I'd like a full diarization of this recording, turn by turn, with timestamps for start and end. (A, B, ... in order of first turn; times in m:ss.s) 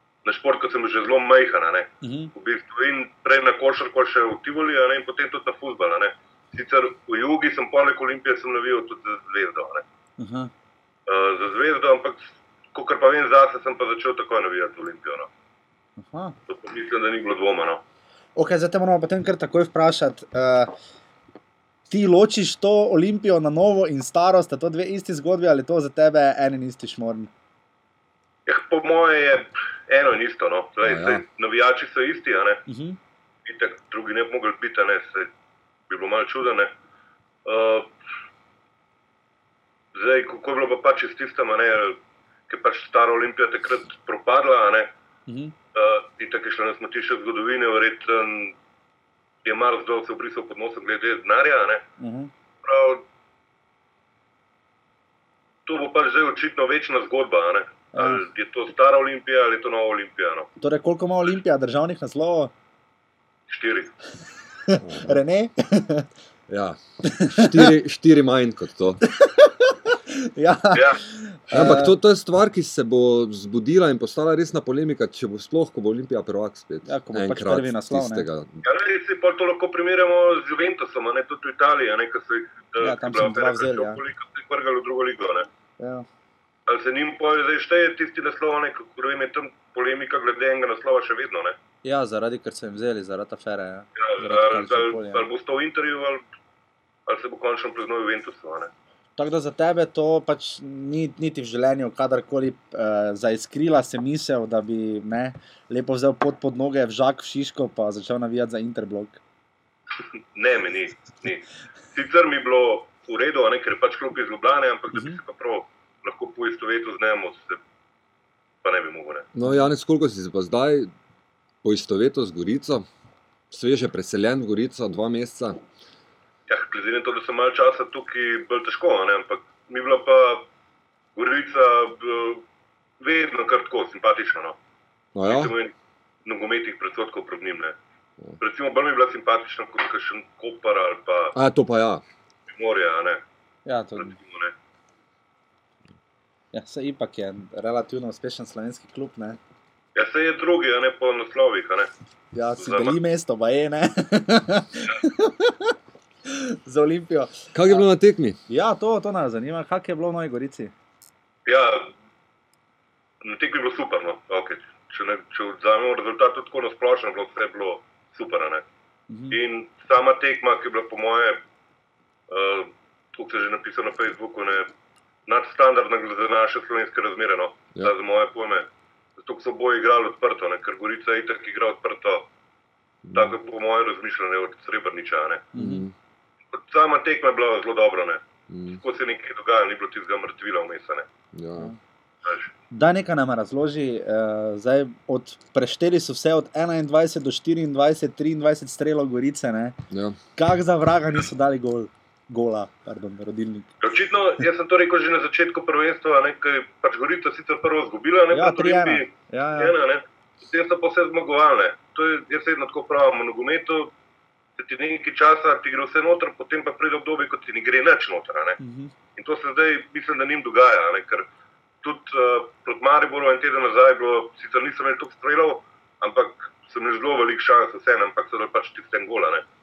0:00.2-0:09.8 A
0:02.0-0:02.3 B
0:10.2-0:10.5 B
0:11.1-0:15.3 A
0:16.0-0:16.4 B
0:16.5-0:17.8 A
0:18.4-0:20.7 B
0:21.9-0:27.3 B
0:28.5-0:32.6 A
0:30.8-0:31.2 C
0:32.7-0:33.0 B
0:33.4-0:35.3 A
0:35.9-0:36.7 A
0:37.4-0:37.9 A
0:40.0-0:44.9 A
0:45.3-0:45.5 B
0:45.7-0:48.6 A
0:49.4-0:51.9 A
0:52.0-0:52.3 B
0:52.6-0:53.0 A
0:55.7-1:00.5 A
0:57.9-0:58.2 B
1:00.6-1:02.5 B
1:03.5-1:03.9 A
1:04.7-1:06.1 B
1:04.8-1:05.2 C
1:06.5-1:09.0 C
1:07.0-1:07.7 B
1:09.1-1:12.0 B
1:10.7-1:11.0 A
1:11.5-1:18.6 C
1:16.8-1:18.3 B
1:18.6-1:25.5 A
1:22.8-1:24.0 B
1:25.8-1:26.1 B
1:26.7-1:31.6 A
1:31.8-1:35.3 B
1:34.0-1:36.2 A
1:37.1-1:38.7 A
1:39.2-1:49.2 B
1:49.9-1:57.6 A
1:54.9-1:55.2 B
1:58.6-1:59.3 A
1:59.4-2:00.9 C
2:01.6-2:02.9 C
2:03.5-2:05.6 C
2:06.5-2:10.5 A
2:11.2-2:12.4 A
2:13.0-2:14.6 A
2:15.2-2:15.5 C
2:15.2-2:15.7 A
2:16.2-2:17.8 A
2:18.4-2:21.4 A
2:21.4-2:22.0 C
2:22.5-2:23.2 A
2:23.7-2:24.2 B
2:24.0-2:24.5 A
2:26.5-2:29.4 B
2:30.0-2:31.9 A
2:32.3-2:35.7 B
2:32.6-2:33.0 A
2:36.3-2:37.9 B
2:37.5-2:38.4 C
2:38.5-2:40.7 B
2:41.5-2:41.9 A
2:43.2-2:48.6 A
2:49.1-2:49.4 B
2:49.3-2:51.4 A
2:52.3-2:54.7 A
2:55.3-3:02.3 A
3:03.0-3:03.4 C
3:03.1-3:05.5 A
3:05.5-3:05.8 B
3:05.6-3:05.9 C
3:06.5-3:11.1 A
3:08.5-3:08.8 C
3:11.3-3:11.7 C
3:12.2-3:12.5 A
3:12.7-3:19.8 B
3:19.9-3:20.2 C
3:20.4-3:23.7 B
3:23.8-3:33.9 A
3:28.3-3:29.7 B
3:34.6-3:38.6 A
3:38.6-3:38.9 B
3:39.2-3:41.3 A
3:41.8-3:49.4 A